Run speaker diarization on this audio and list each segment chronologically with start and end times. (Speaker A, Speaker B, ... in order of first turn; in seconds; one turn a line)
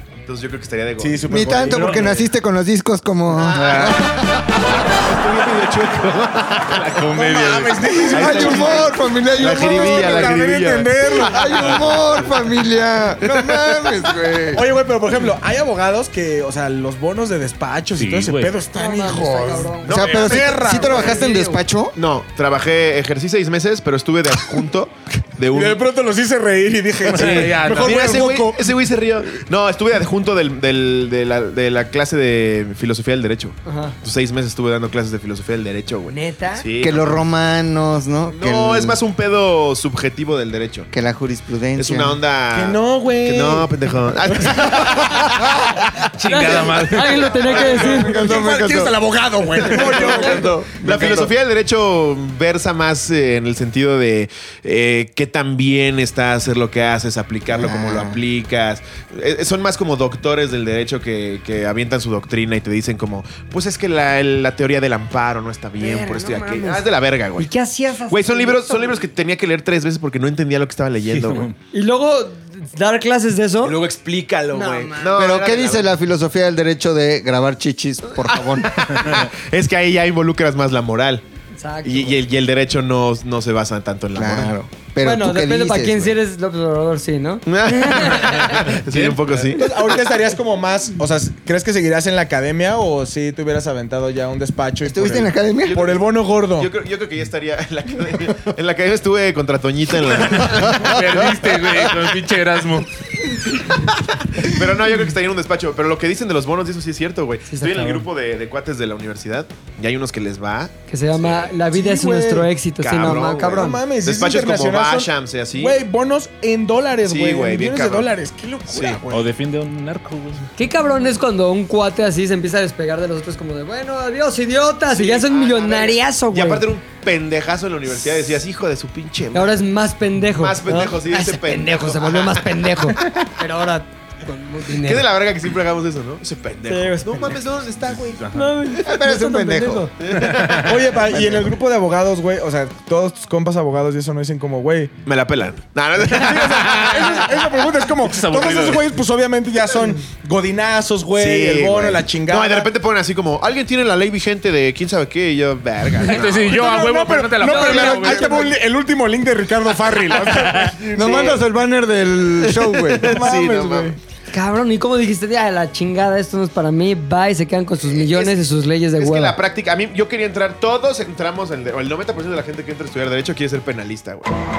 Speaker A: 0.2-1.4
Speaker B: 1.0-2.2
Speaker C: 1.3-4.6
Speaker D: 1.7-2.2
Speaker A: 3.3-6.8
Speaker B: 5.2-5.7
Speaker D: 6.7-8.1
Speaker B: 7.1-11.8
Speaker A: 8.1-11.7
Speaker C: 8.1-10.5
Speaker C: 11.2-14.7
Speaker D: 11.6-12.0
Speaker A: 13.2-14.0
Speaker B: 14.5-21.3
Speaker D: 18.0-18.6
Speaker E: 18.7-21.6
Speaker A: 19.8-20.7
Speaker C: 19.9-22.0
Speaker A: 21.9-25.8
Speaker B: 25.5-28.7
Speaker D: 27.1-28.1
Speaker A: 27.1-37.2
Speaker E: 33.7-34.0
Speaker E: 36.1-36.7
Speaker C: 36.8-39.0
Speaker A: 38.3-40.9
Speaker C: 40.9-42.2
Speaker A: 41.8-45.6
Speaker B: 42.5-44.9
Speaker D: 46.1-47.4
Speaker E: 46.3-48.2
Speaker B: 47.6-50.8
Speaker C: 47.6-49.0
Speaker C: 49.6-51.3
Speaker A: 49.8-67.5
Speaker C: 57.5-58.2
Speaker E: 65.8-69.0
Speaker A: 68.1-71.5
Speaker D: 71.1-71.5
Speaker E: 71.7-73.8
Speaker A: 73.6-75.9
Speaker E: 74.5-75.2
Speaker C: 75.2-78.9
Speaker A: 78.2-81.2
Speaker E: 81.6-82.2
Speaker A: 81.8-84.5
Speaker C: 84.1-86.2
Speaker E: 85.0-88.7
Speaker A: 87.5-90.0
Speaker D: 88.2-89.5
Speaker B: 89.6-96.7
Speaker C: 94.8-95.8
Speaker A: 95.7-102.0
Speaker D: 100.3-102.9
Speaker A: 103.6-111.5
Speaker E: 107.5-108.1
Speaker E: 110.9-113.8
Speaker B: 111.7-112.5
Speaker A: 112.8-115.8
Speaker B: 113.5-119.3
Speaker A: 117.0-118.1
Speaker A: 118.7-119.0
Speaker D: 119.1-120.5
Speaker E: 120.6-126.7
Speaker A: 124.9-129.6
Speaker E: 129.3-135.1
Speaker A: 130.3-133.3
Speaker A: 134.7-138.3
Speaker E: 136.7-137.3
Speaker E: 138.3-139.9
Speaker C: 138.8-139.9
Speaker A: 140.0-141.5
Speaker D: 140.2-140.7
Speaker B: 140.6-144.9
Speaker A: 145.1-147.2
Speaker B: 146.1-152.7
Speaker D: 146.5-148.9
Speaker A: 151.2-156.6
Speaker D: 156.0-158.5
Speaker B: 156.4-161.4
Speaker E: 157.4-158.5
Speaker D: 160.2-160.8
Speaker C: 160.9-163.2
Speaker A: 161.0-161.3
Speaker A: 162.4-164.0
Speaker B: 163.0-164.0
Speaker E: 164.3-169.4
Speaker A: 167.8-168.4
Speaker A: 169.0-174.4